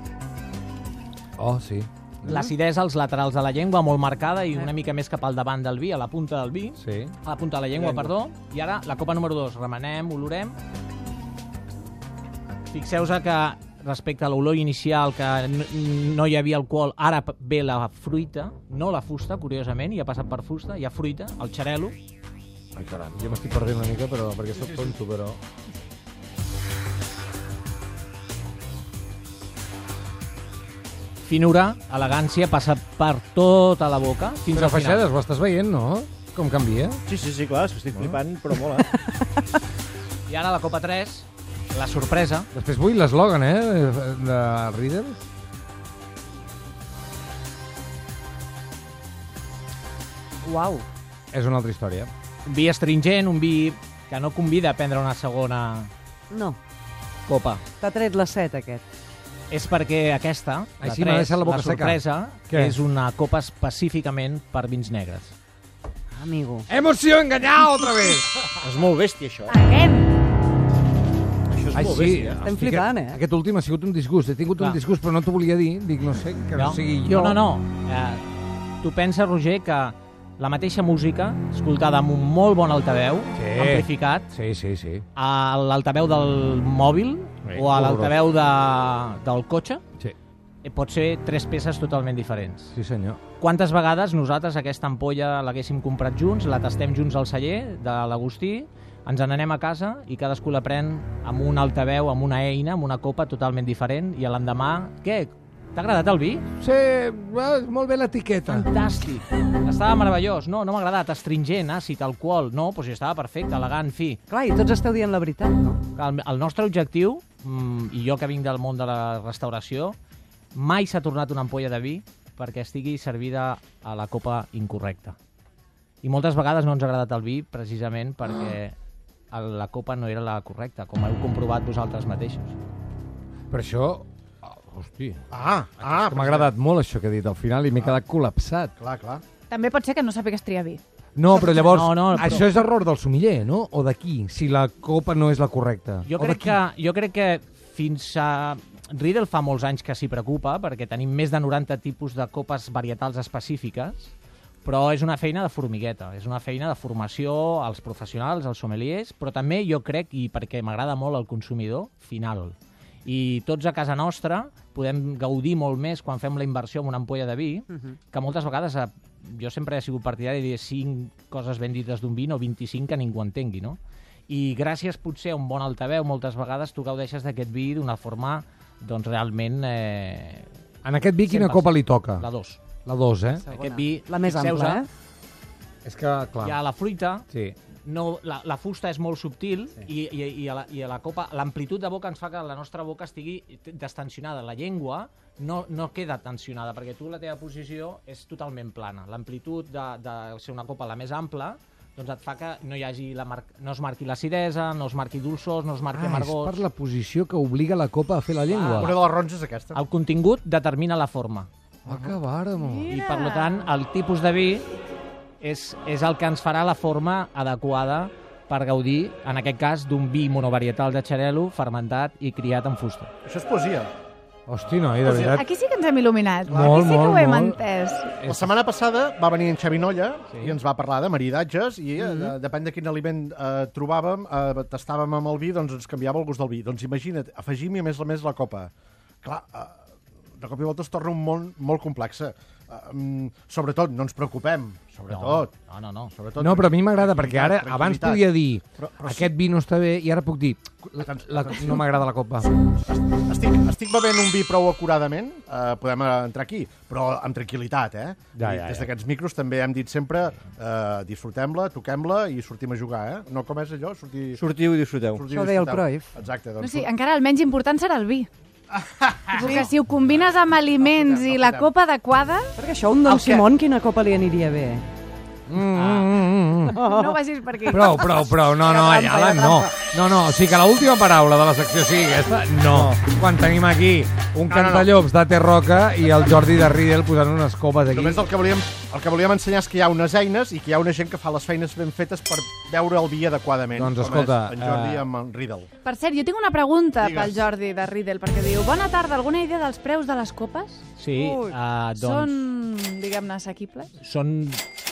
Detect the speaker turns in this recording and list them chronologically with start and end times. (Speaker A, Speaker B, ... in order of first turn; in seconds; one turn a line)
Speaker A: 1.4-2.5
Speaker B: 2.2-10.6
Speaker A: 6.8-7.1
Speaker B: 12.7-22.0
Speaker A: 22.8-25.4
Speaker B: 31.2-35.1
Speaker A: 34.5-37.0
Speaker C: 37.1-38.9
Speaker B: 40.3-42.5
Speaker A: 42.5-45.2
Speaker D: 50.4-50.9
Speaker A: 51.3-52.1
Speaker B: 52.5-55.9
Speaker D: 56.3-56.6
Speaker B: 57.3-57.6
Speaker D: 57.8-58.8
Speaker B: 59.5-65.3
Speaker A: 60.8-62.8
Speaker D: 66.2-66.7
Speaker A: 66.7-68.4
Speaker C: 68.6-69.6
Speaker E: 69.5-70.1
Speaker C: 71.5-72.4
Speaker A: 71.7-77.4
Speaker D: 72.4-73.2
Speaker B: 76.5-78.3
Speaker B: 78.8-84.3
Speaker A: 83.4-85.0
Speaker B: 85.2-89.8
Speaker A: 87.5-88.1
Speaker B: 90.6-92.8
Speaker A: 92.7-93.2
Speaker B: 93.4-106.5
Speaker A: 106.6-108.7
Speaker B: 108.5-114.2
Speaker D: 114.3-115.8
Speaker B: 116.0-120.0
Speaker B: 120.5-125.2
Speaker B: 126.0-128.8
Speaker B: 129.3-132.6
Speaker A: 133.5-135.3
Speaker F: 135.3-136.5
Speaker A: 135.8-138.7
Speaker F: 138.8-139.2
Speaker E: 139.5-140.8
Speaker A: 141.2-146.6
Speaker B: 141.4-142.5
Speaker B: 146.1-154.1
Speaker B: 154.7-180.5
Speaker A: 180.8-182.3
Speaker B: 181.3-182.6
Speaker A: 182.8-183.4
Speaker D: 183.5-184.9
Speaker B: 183.5-184.8
Speaker A: 185.8-186.6
Speaker B: 186.4-187.3
Speaker A: 187.3-187.6
Speaker B: 187.8-206.6
Speaker A: 205.9-208.9
Speaker B: 208.5-209.0
Speaker F: 208.8-209.8
Speaker B: 209.7-211.5
Speaker A: 211.9-212.9
Speaker E: 212.7-213.6
Speaker B: 212.9-214.7
Speaker B: 215.4-223.1
Speaker F: 223.2-223.9
Speaker A: 224.5-225.5
Speaker E: 225.0-228.2
Speaker A: 226.5-227.6
Speaker F: 226.5-226.8
Speaker A: 228.2-228.5
Speaker F: 228.2-238.7
Speaker B: 230.3-230.6
Speaker F: 239.2-239.8
Speaker F: 240.4-245.5
Speaker B: 245.1-246.1
Speaker F: 246.1-248.3
Speaker A: 246.4-252.5
Speaker F: 248.8-249.3
Speaker F: 251.0-251.9
Speaker F: 252.6-264.4
Speaker A: 258.4-258.9
Speaker C: 264.4-265.2
Speaker F: 265.1-266.9
Speaker D: 265.3-266.1
Speaker E: 266.6-268.3
Speaker F: 268.7-269.6
Speaker E: 269.3-272.5
Speaker F: 270.8-271.7
Speaker D: 272.6-274.9
Speaker F: 273.1-273.4
Speaker A: 275.5-276.8
Speaker B: 275.7-276.1
Speaker D: 276.7-277.2
Speaker E: 276.8-279.6
Speaker A: 277.7-288.2
Speaker D: 278.9-279.3
Speaker F: 284.5-284.9
Speaker F: 287.9-295.7
Speaker A: 293.7-295.1
Speaker E: 295.8-300.8
Speaker F: 297.0-297.4
Speaker B: 301.0-302.5
Speaker D: 301.2-301.5
Speaker E: 302.0-303.9
Speaker B: 304.0-304.6